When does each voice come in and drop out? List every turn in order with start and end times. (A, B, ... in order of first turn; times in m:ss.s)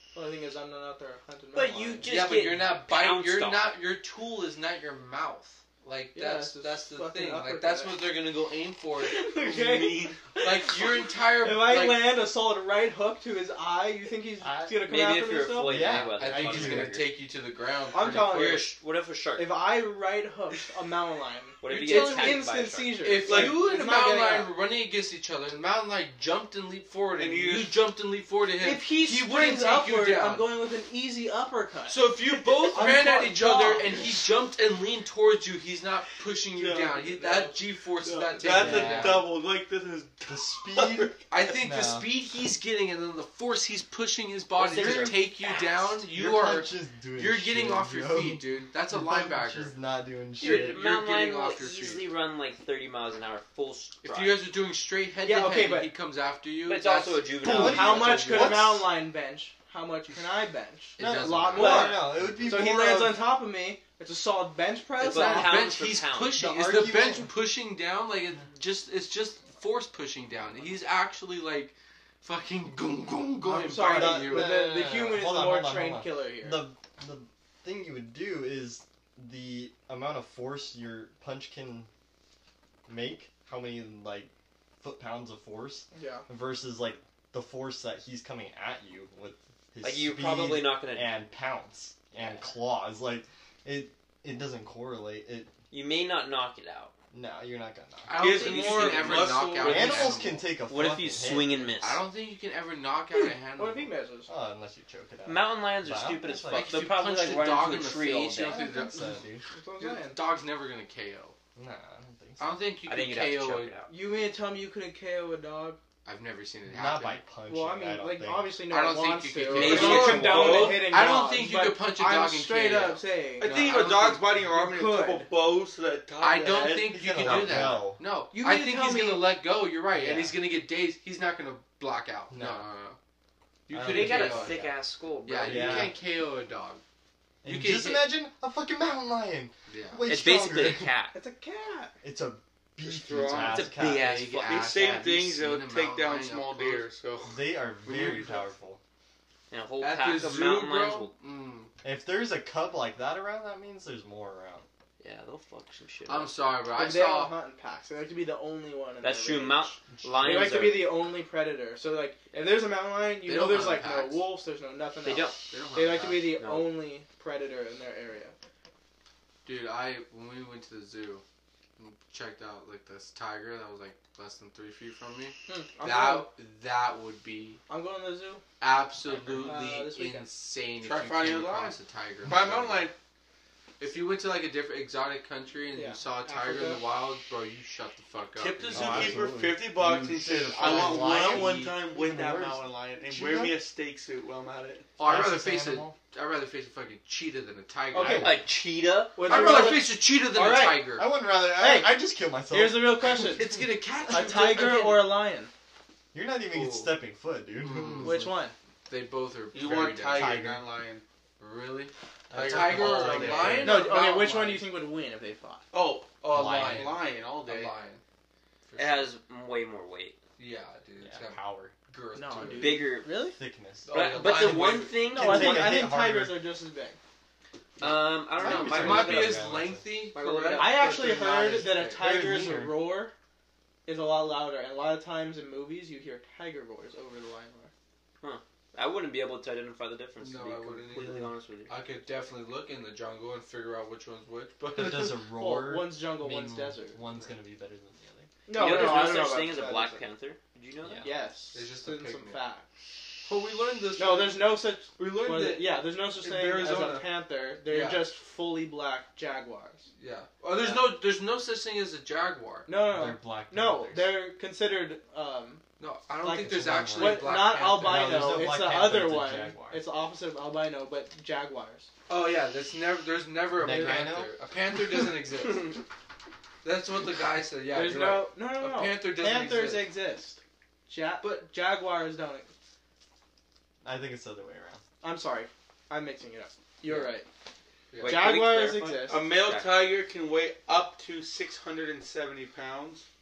0:00.1-0:02.1 A
0:01.5-0:03.8 B
0:02.0-0:09.2 C
0:06.1-0:08.0 A
0:09.0-0:16.0 A
0:09.3-0:10.3 D
0:10.4-0:12.1 C
0:14.4-0:14.9 E
0:14.8-0:17.1 B
0:15.6-0:17.0 E
0:16.2-0:18.6 C
0:17.9-0:18.8 A
0:18.1-0:19.5 B
0:19.4-0:24.5 A
0:21.6-0:23.1 B
0:21.7-0:22.4 C
0:23.0-0:30.5 C
0:23.2-0:23.6 D
0:27.2-0:27.8 D
0:28.6-0:34.0 A
0:31.9-0:39.3 C
0:36.5-0:37.4 D
0:37.2-0:37.5 A
0:38.0-0:41.3 D
0:38.4-0:39.2 E
0:40.3-0:42.1 E
0:41.3-0:49.7 C
0:44.6-0:45.8 B
0:44.8-0:45.2 E
0:46.1-0:50.8 E
0:50.4-0:52.0 C
0:50.4-0:54.4 B
0:54.0-0:58.7 C
0:55.2-0:55.9 A
0:56.6-0:58.5 B
0:57.4-0:58.8 E
0:57.5-1:05.6 A
1:01.0-1:02.6 C
1:01.0-1:03.2 E
1:05.0-1:06.4 B
1:05.1-1:14.6 C
1:06.3-1:07.3 E
1:13.4-1:16.6 A
1:13.8-1:21.9 E
1:22.9-1:24.3 E
1:24.8-1:35.5 E
1:25.9-1:26.2 A
1:29.8-1:31.2 B
1:35.7-1:36.9 B
1:37.1-1:38.2 E
1:38.1-1:40.4 C
1:38.2-1:40.1 D
1:38.3-1:42.0 B
1:39.6-1:41.7 E
1:41.8-1:43.9 C
1:43.2-1:44.3 A
1:44.3-1:46.8 E
1:45.2-1:48.6 B
1:46.5-1:49.2 C
1:48.4-1:49.4 E
1:49.0-1:50.2 A
1:49.8-1:51.3 C
1:51.6-1:52.6 E
1:52.4-1:53.8 C
1:52.9-1:53.9 B
1:53.9-1:55.8 A
1:56.0-1:57.2 C
1:56.7-1:58.6 E
1:57.5-2:03.8 A
1:58.7-2:04.3 C
1:59.5-2:00.9 B
1:59.6-2:00.6 E
2:03.4-2:07.8 D
2:04.4-2:05.3 A
2:06.2-2:13.0 C
2:06.9-2:08.0 E
2:08.3-2:09.3 A
2:09.9-2:10.4 E
2:12.3-2:12.7 E
2:13.7-2:14.7 C
2:13.7-2:14.6 E
2:13.8-2:15.9 B
2:15.2-2:16.8 C
2:15.4-2:16.0 E
2:17.4-2:18.1 C
2:17.4-2:20.9 E
2:19.7-2:20.1 C
2:20.1-2:21.2 B
2:21.1-2:21.9 A
2:22.0-2:24.1 E
2:22.8-2:23.6 D
2:23.3-2:26.9 C
2:23.5-2:24.8 B
2:24.4-2:27.4 D
2:27.2-2:28.8 E
2:27.8-2:28.5 C
2:29.5-2:31.1 B
2:29.8-2:31.7 C
2:31.8-2:34.6 E
2:35.0-2:36.4 B
2:36.1-2:37.4 C
2:36.7-2:48.3 A
2:39.0-2:41.0 B
2:39.9-2:40.7 E
2:43.2-2:44.3 C
2:45.0-2:45.4 B
2:45.5-2:46.3 C
2:46.2-2:46.8 B
2:49.4-2:51.2 C
2:51.8-2:57.6 C
2:55.5-2:56.3 A
2:57.7-2:58.4 A
2:58.6-3:02.9 C
2:59.4-3:00.3 A
3:00.8-3:02.9 D
3:03.8-3:09.3 C
3:05.7-3:06.8 A
3:08.4-3:14.9 D
3:08.7-3:13.6 E
3:10.4-3:11.8 C
3:15.0-3:18.4 C
3:15.0-3:15.9 E
3:17.9-3:18.4 A
3:18.0-3:18.5 E
3:18.2-3:19.2 B
3:19.2-3:20.9 A
3:19.2-3:21.0 C
3:20.9-3:23.4 E
3:21.5-3:23.6 A
3:23.2-3:25.2 C
3:24.1-3:24.7 E
3:24.1-3:25.5 A
3:26.1-3:28.3 E
3:26.5-3:27.0 C
3:27.6-3:28.2 C
3:28.0-3:28.5 A
3:28.9-3:30.5 C
3:29.5-3:31.0 D
3:30.1-3:30.6 E
3:31.4-3:34.6 C
3:32.3-3:33.9 E
3:32.3-3:33.8 D
3:33.6-3:35.6 A
3:35.7-3:37.7 D
3:36.2-3:38.0 C
3:36.3-3:37.0 E
3:38.7-3:39.1 C
3:38.8-3:40.2 B
3:40.4-3:42.9 C
3:41.0-3:41.7 E
3:42.1-3:43.4 A
3:42.5-3:43.3 B
3:43.3-3:46.4 E
3:43.8-3:45.0 C
3:43.9-3:45.8 B
3:45.0-3:47.0 A
3:47.8-3:49.5 B
3:47.8-3:49.9 E
3:48.4-3:52.2 C
3:50.1-3:50.9 B
3:50.2-3:51.2 D
3:50.6-3:53.1 A
3:52.0-3:52.9 E
3:53.8-3:57.7 A
3:58.2-4:01.7 B
4:00.2-4:05.2 C
4:04.7-4:08.3 E
4:05.3-4:07.0 A
4:08.5-4:10.0 A
4:08.5-4:11.1 B
4:10.8-4:11.1 E
4:11.0-4:12.6 A
4:11.5-4:12.4 C
4:13.2-4:17.1 C
4:14.0-4:19.8 A
4:17.6-4:18.1 C
4:20.0-4:22.7 C
4:22.7-4:25.6 A
4:22.8-4:24.2 E
4:25.8-4:28.4 C
4:26.2-4:31.9 A
4:26.4-4:29.8 E
4:32.1-4:35.8 C
4:33.6-4:34.3 E
4:33.6-4:34.0 A
4:36.6-4:39.9 C
4:37.7-4:42.5 A
4:43.8-4:44.8 E
4:45.0-4:47.3 A
4:46.8-4:47.2 B
4:47.9-4:48.3 C
4:48.0-4:49.9 B
4:48.0-4:49.3 A
4:49.0-4:53.0 D